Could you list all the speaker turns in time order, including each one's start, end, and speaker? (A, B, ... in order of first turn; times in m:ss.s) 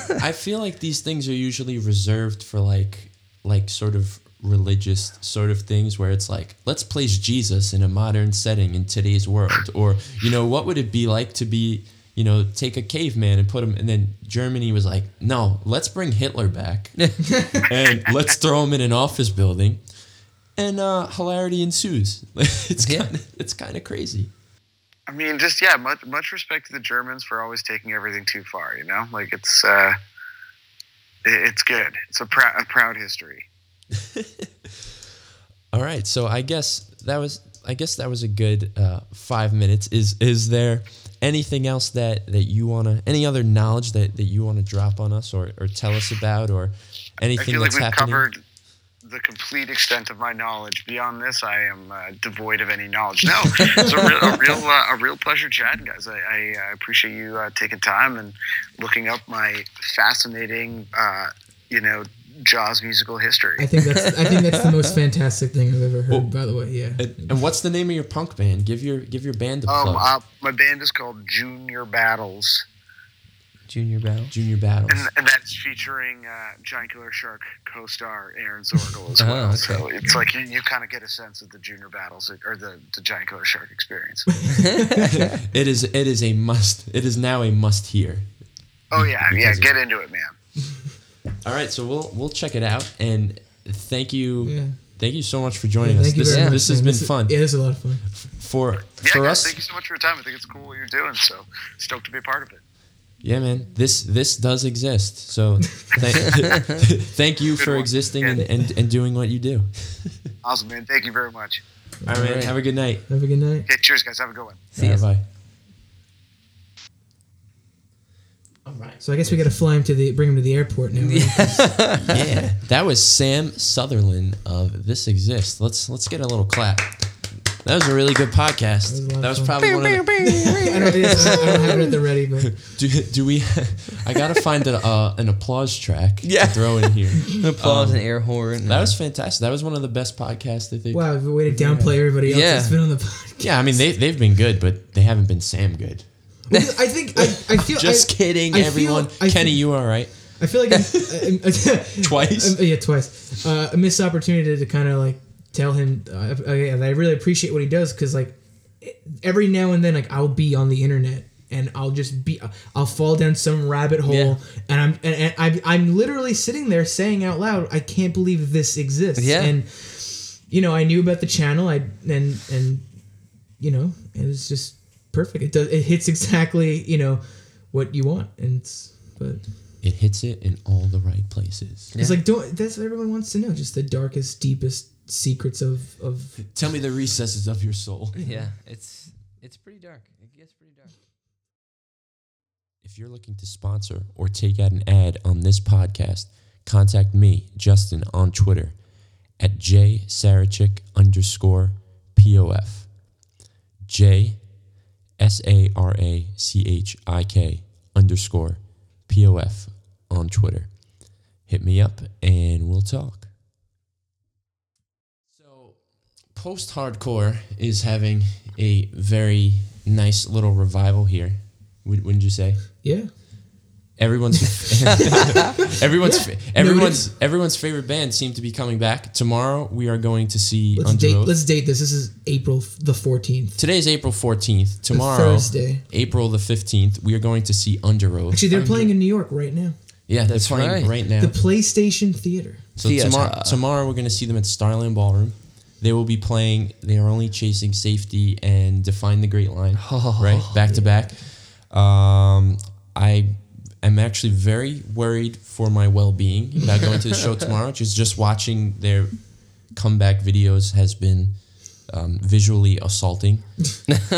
0:00.2-0:24.3 A
0:25.1-0:30.0 B
0:31.2-0:33.5 B
0:35.7-0:48.3 A
0:47.4-0:48.4 B
0:49.0-1:03.6 B
1:03.6-1:07.3 C
1:06.1-1:10.1 A
1:09.7-1:12.6 B
1:13.7-1:14.3 D
1:14.3-1:15.1 A
1:14.9-1:24.7 B
1:19.2-1:19.8 D
1:20.0-1:20.3 C
1:24.6-1:24.8 C
1:25.5-1:29.8 A
1:28.9-1:30.4 B
1:31.4-1:39.5 A
1:34.4-1:34.8 C
1:35.8-1:38.1 C
1:36.3-1:36.6 D
1:39.0-1:42.6 B
1:43.2-1:50.3 A
1:46.3-1:46.5 B
1:47.6-1:48.4 B
1:48.3-1:48.7 C
1:50.4-1:51.6 B
1:52.0-1:53.7 C
1:52.0-1:53.1 A
1:52.1-1:52.5 D
1:53.7-1:54.7 B
1:54.7-1:55.0 D
1:54.7-1:55.2 A
1:58.6-1:59.5 A
1:59.0-2:02.0 C
2:01.0-2:02.0 D
2:02.1-2:10.7 A
2:08.9-2:09.8 C
2:09.7-2:11.7 D
2:10.6-2:12.6 C
2:12.6-2:21.9 A
2:16.2-2:19.0 D
2:20.9-2:23.9 C
2:21.8-2:22.8 D
2:23.4-2:26.4 A
2:26.5-2:59.5 C
2:26.5-2:26.9 D
2:27.2-2:30.8 A
2:32.0-2:32.6 A
2:44.0-2:44.4 D
2:49.2-2:49.6 D
2:59.8-3:01.9 A
3:01.9-3:02.2 D
3:01.9-3:06.4 C
3:06.5-3:08.2 A
3:08.1-3:08.6 C
3:08.2-3:11.0 D
3:12.8-3:23.3 A
3:23.8-3:33.3 A
3:35.3-3:42.8 A
3:42.8-3:43.6 C
3:44.0-3:51.4 A
3:46.0-3:47.1 C
3:50.8-3:53.6 C
3:53.6-3:58.4 A
3:54.9-3:55.8 C
3:58.3-3:59.8 C
3:58.5-3:58.9 D
4:00.1-4:01.4 A
4:00.2-4:00.9 D
4:01.1-4:02.7 C
4:02.8-4:24.0 A
4:02.8-4:03.6 D
4:09.8-4:10.5 D
4:10.6-4:11.3 C